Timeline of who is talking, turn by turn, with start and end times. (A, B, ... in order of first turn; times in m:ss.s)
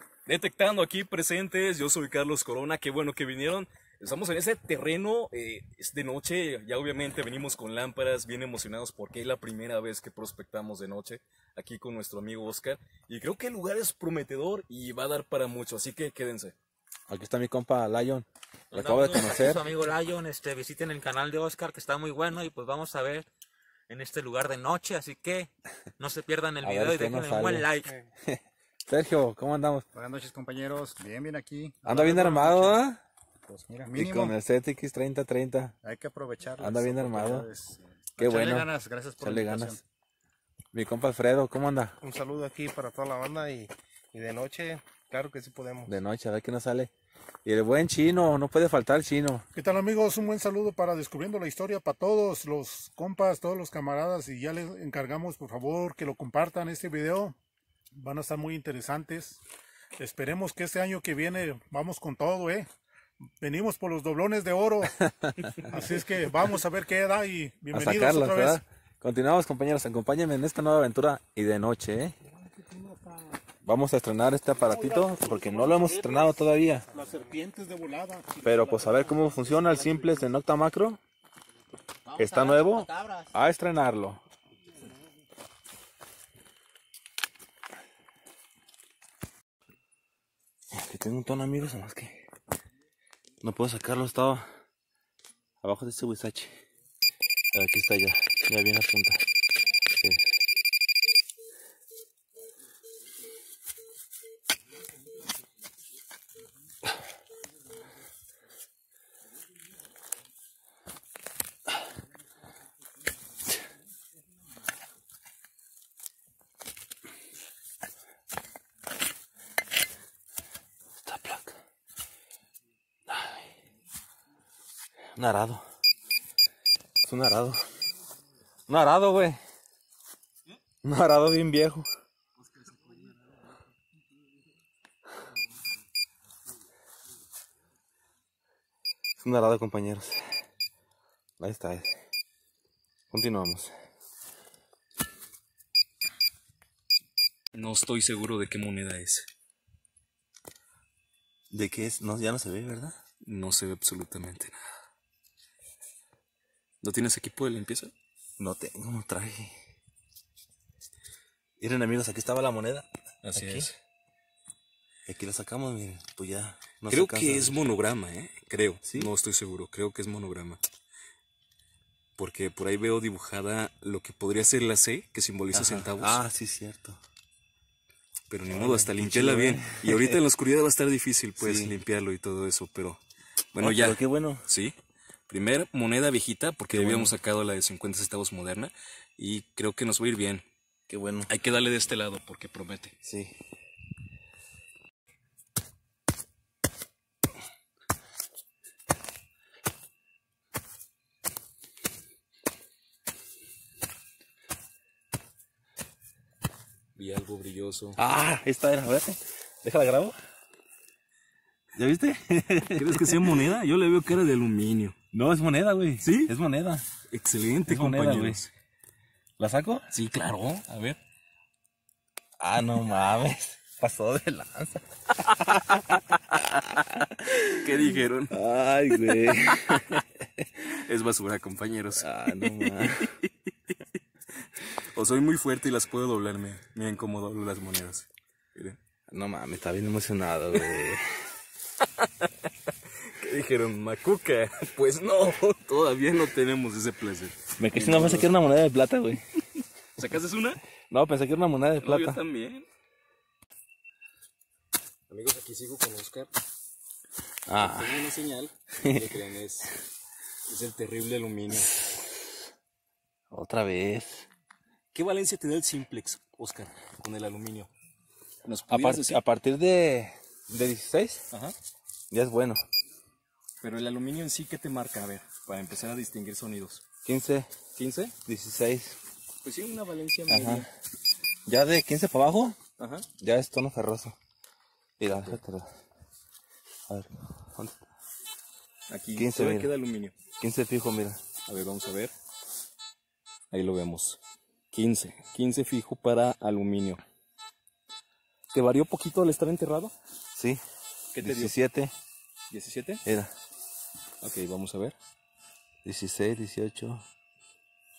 0:00.2-0:16.5 A
0:17.1-0:19.7 B
0:18.7-0:23.3 C
0:23.9-0:27.9 C
0:26.6-0:27.7 B
0:27.8-0:28.1 D
0:28.2-0:29.8 B
0:29.9-0:32.8 E
0:31.8-0:33.0 B
0:33.5-0:34.4 E
0:33.9-0:35.7 B
0:35.8-0:39.8 E
0:36.6-0:37.5 B
0:38.2-0:39.8 B
0:40.7-0:42.0 B
0:42.0-0:46.0 D
0:45.9-0:46.9 B
0:47.4-0:49.4 B
0:49.5-0:57.4 F
0:58.0-0:59.4 F
1:00.0-1:02.7 F
1:03.4-1:05.0 F
1:05.0-1:05.7 B
1:05.6-1:08.6 F
1:07.7-1:12.2 B
1:12.2-1:13.4 F
1:13.6-1:16.9 B
1:14.6-1:20.2 F
1:18.4-1:21.0 B
1:22.0-1:23.3 C
1:22.2-1:24.2 B
1:30.7-1:32.2 B
1:33.4-1:34.6 B
1:35.6-1:36.6 B
1:37.5-1:39.2 B
1:39.9-1:40.3 B
2:01.0-2:01.6 B
2:03.1-2:03.5 B
2:05.1-2:05.6 B
2:07.0-2:07.6 B
2:08.7-2:09.4 B
2:10.8-2:11.9 B
2:19.2-2:20.3 B
2:21.4-2:21.9 B
2:23.1-2:23.7 B
2:27.5-2:29.3 A
2:31.5-2:33.0 B
2:33.2-2:34.6 A
2:36.8-2:37.9 A
2:38.4-2:39.6 B
2:41.6-2:43.7 B
2:43.2-2:43.8 A
2:45.1-2:47.5 B
2:46.9-2:50.6 A
2:48.8-2:49.1 B
2:52.2-2:56.2 A
2:55.5-2:57.0 B
2:58.3-3:03.0 A
2:58.5-3:00.2 B
3:01.4-3:01.8 B
3:03.5-3:04.7 A
3:03.6-3:04.4 B
3:05.3-3:10.4 A
3:06.7-3:07.2 B
3:10.9-3:11.3 B
3:11.3-3:13.0 A
3:13.0-3:13.4 B
3:26.9-3:28.0 A
3:28.0-3:30.2 B
3:31.8-3:33.5 B
3:32.7-3:35.0 A
3:35.1-3:36.8 B
3:36.0-3:36.3 A
3:37.1-3:38.5 A
3:37.6-3:38.4 B
3:39.4-3:39.9 B
3:39.9-3:41.0 A
3:42.4-3:44.8 B
3:45.4-3:50.5 B
3:47.3-3:48.4 A
3:49.2-3:49.8 A
3:50.6-3:53.1 A
3:51.9-3:53.2 B
3:54.6-3:58.8 A
3:59.1-4:01.3 B
4:01.8-4:02.3 A
4:03.2-4:08.3 A
4:07.6-4:09.4 B
4:10.0-4:10.6 A
4:10.9-4:12.2 B
4:11.8-4:12.6 A
4:15.1-4:16.3 A
4:17.5-4:18.1 B
4:17.6-4:19.7 A
4:18.8-4:19.2 B
4:20.5-4:21.8 A
4:23.3-4:24.2 B
4:24.9-4:27.7 A
4:28.4-4:29.2 A
4:28.7-4:31.3 B
4:32.1-4:32.6 B
4:33.6-4:36.8 A
4:37.0-4:37.6 B
4:37.7-4:38.1 A
4:38.2-4:39.0 B
4:39.4-4:40.7 A
4:40.3-4:40.7 B
4:41.4-4:42.6 B
4:42.8-4:43.0 A
4:43.2-4:44.2 B
4:45.0-4:45.7 B
4:46.9-4:47.7 B
4:48.9-4:50.1 A
4:49.1-4:49.7 B
4:50.4-4:51.2 B
4:51.5-4:52.1 A
4:53.5-4:54.2 A
4:54.7-4:57.0 A
4:58.5-4:59.9 A
5:00.3-5:00.6 B
5:01.1-5:01.6 A
5:01.2-5:01.9 B
5:02.5-5:03.0 A
5:03.0-5:03.3 B
5:04.2-5:04.9 A
5:05.8-5:07.0 B